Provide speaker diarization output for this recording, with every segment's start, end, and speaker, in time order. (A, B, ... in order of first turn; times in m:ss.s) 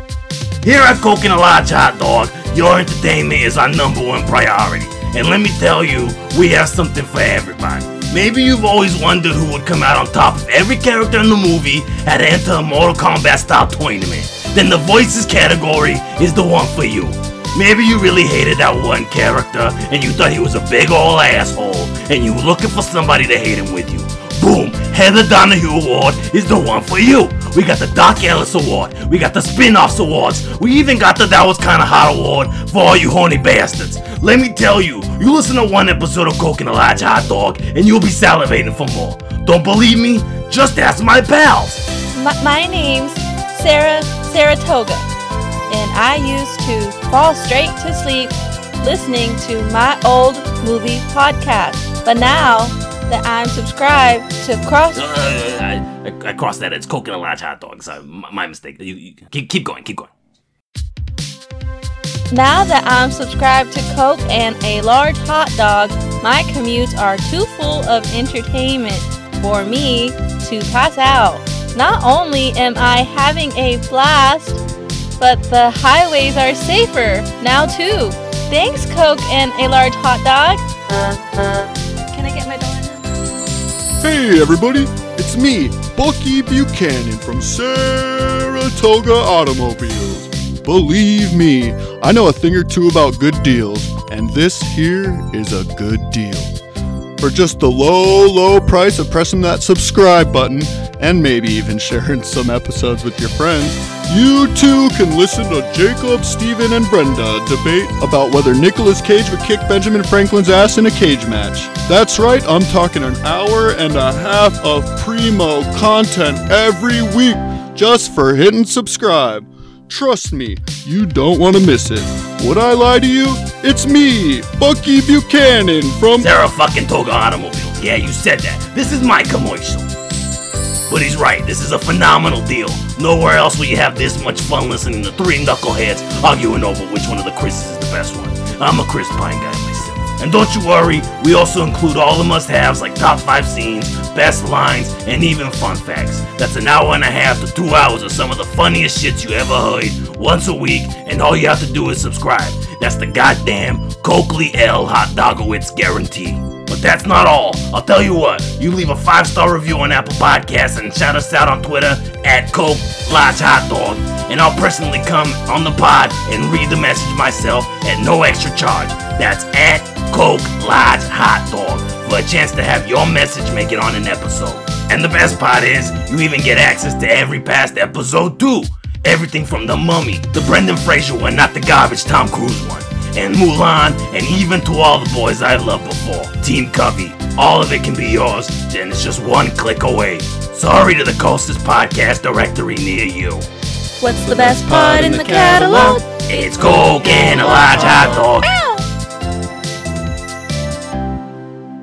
0:00.6-0:41.8 A
0:42.1-0:45.1 B
0:45.7-0:55.0 B
0:54.9-1:00.1 A
1:02.3-1:14.6 B
1:15.2-1:20.6 B
1:22.1-1:23.1 B
1:24.0-1:36.5 C
1:37.2-2:06.3 C
2:06.2-2:09.9 A
2:10.9-3:13.5 A
3:14.0-3:16.0 B
3:14.1-3:16.0 C
3:16.3-3:18.5 A
3:17.1-3:18.8 B